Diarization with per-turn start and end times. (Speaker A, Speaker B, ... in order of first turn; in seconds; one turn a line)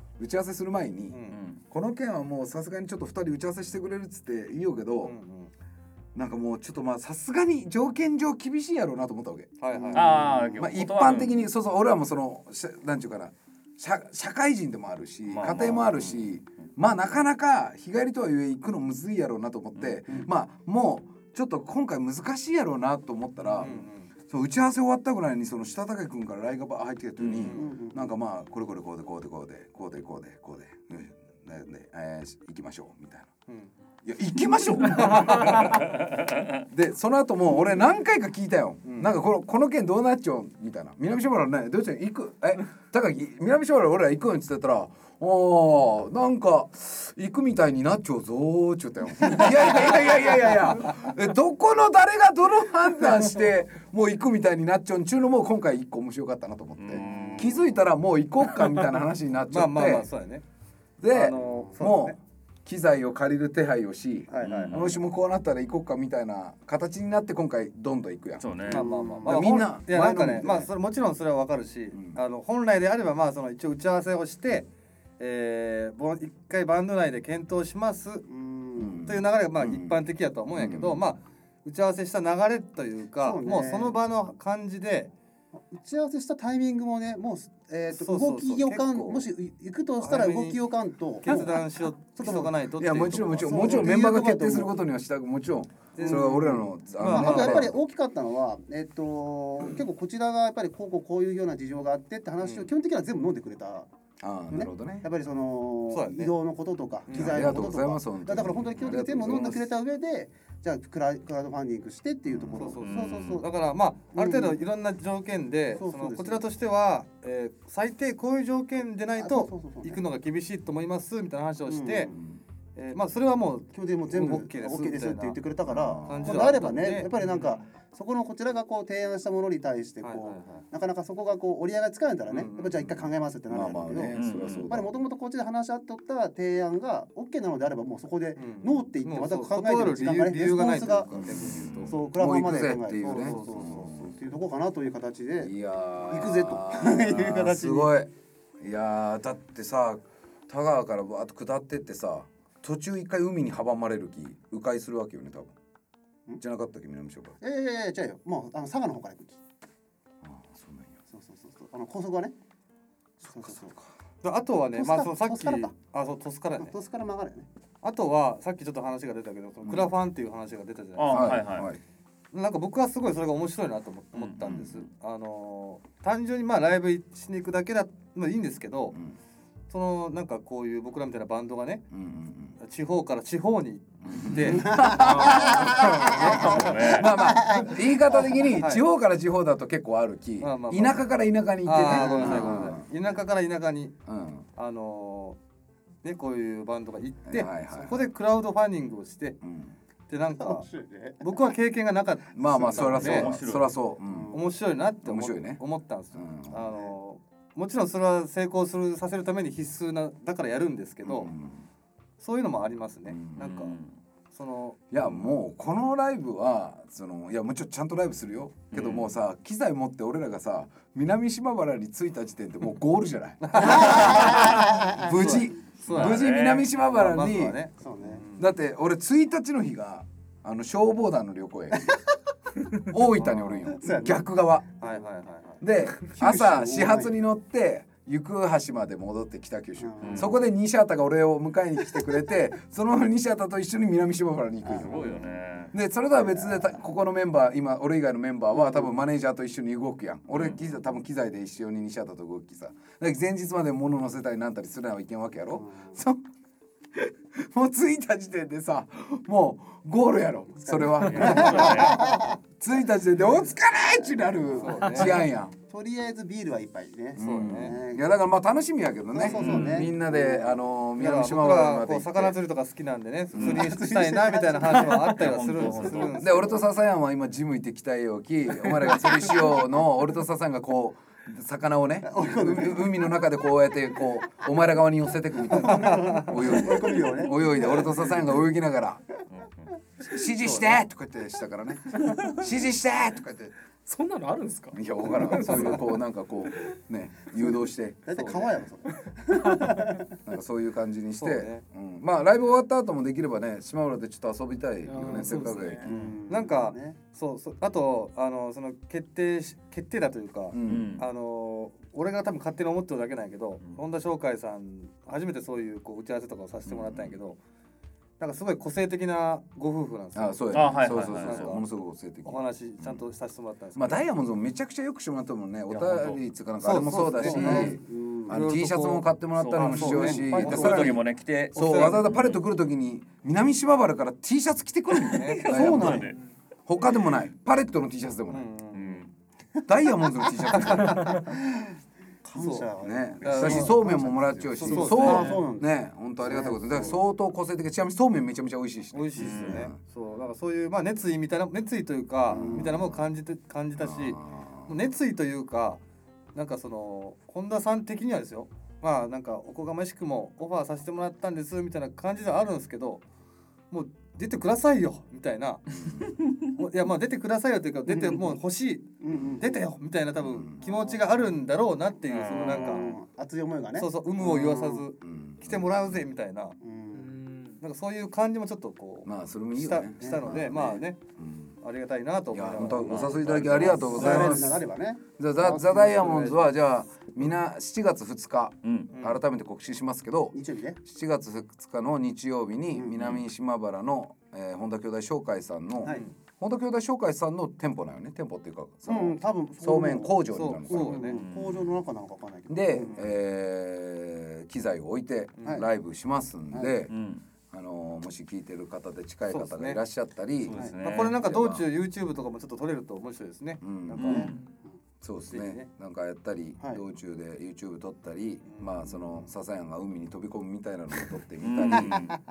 Speaker A: 0.2-1.2
Speaker B: 1.1-1.4
Speaker C: 1.3-1.6
Speaker A: 1.7-5.1
Speaker B: 5.0-5.5
Speaker A: 6.1-9.6
Speaker B: 9.6-10.8
Speaker D: 9.7-10.2
Speaker C: 9.9-11.5
Speaker A: 10.6-33.3
Speaker C: 15.3-16.3
Speaker C: 19.7-20.0
Speaker B: 23.4-24.1
Speaker B: 27.2-27.7
Speaker D: 27.5-28.1
Speaker B: 33.5-33.7
Speaker A: 34.0-36.0
Speaker B: 34.9-35.8
Speaker A: 36.6-60.1
Speaker B: 38.8-39.2
Speaker C: 56.8-57.6
Speaker D: 56.9-57.8
Speaker B: 59.5-60.4
Speaker A: 61.0-70.7
Speaker B: 61.1-62.2
Speaker B: 64.3-64.9
Speaker C: 64.4-65.0
Speaker C: 68.4-68.8
Speaker B: 68.7-78.2
Speaker D: 68.7-69.6
Speaker A: 71.9-72.2
Speaker D: 78.3-79.0
Speaker A: 78.8-81.1
Speaker B: 79.0-85.1
Speaker D: 83.2-84.0
Speaker D: 85.7-91.6
Speaker B: 87.9-89.3
Speaker B: 90.0-90.6
Speaker B: 91.2-94.0
Speaker D: 92.1-92.5
Speaker A: 92.8-97.7
Speaker D: 93.3-94.8
Speaker B: 95.9-97.7
Speaker D: 96.0-103.9
Speaker A: 99.6-99.8
Speaker B: 102.4-102.7
Speaker A: 104.2-105.1
Speaker D: 104.5-113.5
Speaker B: 105.9-106.3
Speaker B: 107.1-107.6
Speaker A: 107.1-109.6
Speaker B: 108.8-109.7
Speaker A: 112.3-112.7
Speaker B: 112.5-122.1
Speaker C: 112.8-113.4
Speaker D: 114.1-114.6
Speaker D: 115.7-116.4
Speaker D: 119.2-120.0
Speaker D: 121.7-122.2
Speaker A: 122.1-122.4
Speaker B: 122.7-125.4
Speaker D: 123.7-147.9
Speaker A: 125.7-126.5
Speaker B: 126.0-127.6
Speaker B: 130.0-130.6
Speaker B: 132.3-132.8
Speaker A: 132.8-134.9
Speaker C: 134.1-134.7
Speaker B: 138.3-141.9
Speaker A: 141.1-144.2
Speaker C: 141.5-141.9
Speaker B: 143.0-143.9
Speaker A: 145.4-155.6
Speaker A: 156.4-157.4
Speaker D: 157.4-159.4
Speaker A: 160.2-161.0
Speaker D: 161.1-162.3
Speaker A: 163.2-163.8
Speaker D: 163.3-163.8
Speaker B: 164.2-166.7
Speaker D: 164.7-165.7
Speaker D: 166.6-167.5
Speaker B: 167.8-171.4
Speaker A: 169.6-169.9
Speaker C: 170.9-171.7
Speaker A: 171.1-171.8
Speaker B: 172.3-178.9
Speaker C: 174.1-174.4
Speaker A: 174.4-174.9
Speaker B: 179.7-181.8
Speaker A: 181.9-182.6
Speaker B: 182.6-185.5
Speaker A: 184.0-192.8
Speaker D: 184.4-188.2
Speaker C: 185.0-187.1
Speaker B: 188.5-188.8
Speaker B: 190.4-191.1
Speaker B: 191.6-193.9
Speaker D: 191.8-192.6
Speaker A: 194.1-194.5
Speaker B: 194.5-195.4
Speaker B: 196.0-199.4
Speaker A: 197.2-198.1
Speaker A: 199.4-199.8
Speaker B: 200.1-200.7
Speaker D: 200.3-201.4
Speaker B: 201.2-203.3
Speaker A: 202.3-204.3
Speaker D: 202.7-203.2
Speaker C: 202.7-203.7
Speaker D: 204.1-204.5
Speaker B: 204.3-211.3
Speaker A: 205.0-205.6
Speaker A: 206.1-206.8
Speaker A: 211.0-211.7
Speaker B: 212.2-213.8
Speaker A: 213.1-213.4
Speaker C: 213.4-214.0
Speaker B: 214.3-215.2
Speaker A: 214.9-227.6
Speaker C: 218.7-219.2
Speaker B: 223.4-226.2
Speaker D: 223.7-225.1
Speaker C: 225.8-226.7
Speaker B: 226.8-228.5
Speaker D: 227.8-228.2
Speaker A: 228.4-232.0
Speaker A: 232.7-234.7
Speaker B: 233.1-233.7
Speaker D: 233.7-234.2
Speaker B: 234.8-235.6
Speaker A: 235.6-245.1
Speaker D: 236.0-237.1
Speaker D: 239.8-240.5
Speaker C: 240.0-240.3
Speaker D: 244.6-245.4
Speaker C: 244.7-245.7
Speaker A: 245.7-256.2
Speaker D: 246.1-246.8
Speaker D: 248.5-248.9
Speaker C: 250.3-250.6
Speaker D: 255.5-256.0
Speaker A: 256.9-265.5
Speaker D: 260.6-262.4
Speaker C: 261.0-262.0
Speaker D: 264.0-268.0
Speaker B: 264.6-265.2
Speaker B: 267.1-267.8
Speaker A: 267.2-272.4
Speaker D: 269.1-270.6
Speaker C: 269.2-269.9
Speaker B: 270.9-276.7
Speaker D: 273.3-276.1
Speaker C: 273.3-273.7
Speaker C: 274.7-276.2
Speaker A: 276.1-289.2
Speaker D: 278.9-279.6
Speaker D: 282.0-283.3
Speaker D: 285.4-288.3
Speaker C: 289.3-289.7
Speaker A: 290.1-293.5
Speaker B: 290.4-290.8
Speaker E: 293.8-296.0
Speaker A: 294.7-298.1
Speaker D: 298.1-300.1
Speaker B: 298.1-298.6
Speaker E: 299.3-299.9
Speaker A: 300.2-305.9
Speaker B: 301.2-301.6
Speaker E: 304.8-305.9
Speaker D: 305.8-307.0
Speaker B: 305.9-317.4
Speaker A: 310.5-310.9
Speaker C: 310.7-311.0
Speaker A: 316.6-317.2
Speaker B: 318.2-321.6
Speaker A: 320.1-323.0
Speaker C: 320.5-321.6
Speaker B: 322.2-324.1
Speaker A: 323.8-336.0
Speaker C: 325.7-326.2
Speaker B: 326.0-331.0
Speaker D: 327.1-328.4
Speaker C: 329.3-332.4
Speaker D: 329.8-330.6
Speaker B: 331.5-332.2
Speaker C: 334.9-336.2
Speaker B: 335.1-335.9
Speaker D: 335.5-336.1
Speaker A: 336.6-338.4
Speaker B: 338.3-339.1
Speaker C: 338.7-339.1
Speaker A: 339.6-341.2
Speaker E: 340.9-341.2
Speaker D: 341.0-341.7
Speaker D: 342.2-347.0
Speaker B: 342.3-342.7
Speaker A: 342.8-349.8
Speaker B: 343.2-343.9
Speaker B: 344.6-345.4
Speaker C: 345.0-345.4
Speaker B: 348.9-355.8
Speaker C: 349.2-349.7
Speaker A: 352.3-353.0
Speaker D: 352.3-352.9
Speaker A: 353.8-354.8
Speaker B: 356.3-363.0
Speaker B: 363.7-365.6
Speaker A: 365.7-366.1
Speaker C: 366.0-366.4
Speaker B: 366.6-368.9
Speaker D: 367.9-368.4
Speaker D: 369.0-369.7
Speaker A: 369.1-369.4
Speaker B: 369.4-372.9
Speaker A: 370.2-370.6
Speaker D: 370.6-371.2
Speaker C: 372.1-372.9
Speaker D: 372.3-374.9
Speaker A: 372.5-372.8
Speaker B: 373.7-376.6
Speaker A: 375.0-376.0
Speaker D: 376.6-377.1
Speaker E: 376.9-377.6
Speaker B: 377.6-381.0
Speaker A: 379.0-381.6
Speaker D: 380.0-380.4
Speaker B: 381.6-384.5
Speaker A: 382.3-384.6
Speaker C: 382.8-383.7
Speaker D: 383.6-385.7
Speaker A: 385.2-401.2
Speaker B: 385.4-386.5
Speaker C: 388.6-388.9
Speaker B: 388.9-389.2
Speaker D: 390.3-390.8
Speaker D: 392.7-393.0
Speaker C: 393.0-393.2
Speaker B: 395.8-396.1
Speaker D: 398.9-403.1
Speaker B: 400.3-401.2
Speaker C: 401.1-401.8
Speaker A: 402.5-406.9
Speaker B: 405.4-405.6
Speaker C: 406.9-407.2
Speaker A: 407.5-411.7
Speaker B: 409.3-409.8
Speaker C: 410.4-411.2
Speaker B: 410.8-414.3
Speaker A: 413.6-414.2
Speaker C: 414.0-414.5
Speaker D: 414.0-414.8
Speaker A: 415.0-422.1
Speaker B: 415.3-415.7
Speaker B: 418.4-419.3
Speaker C: 421.4-422.2
Speaker D: 421.9-422.1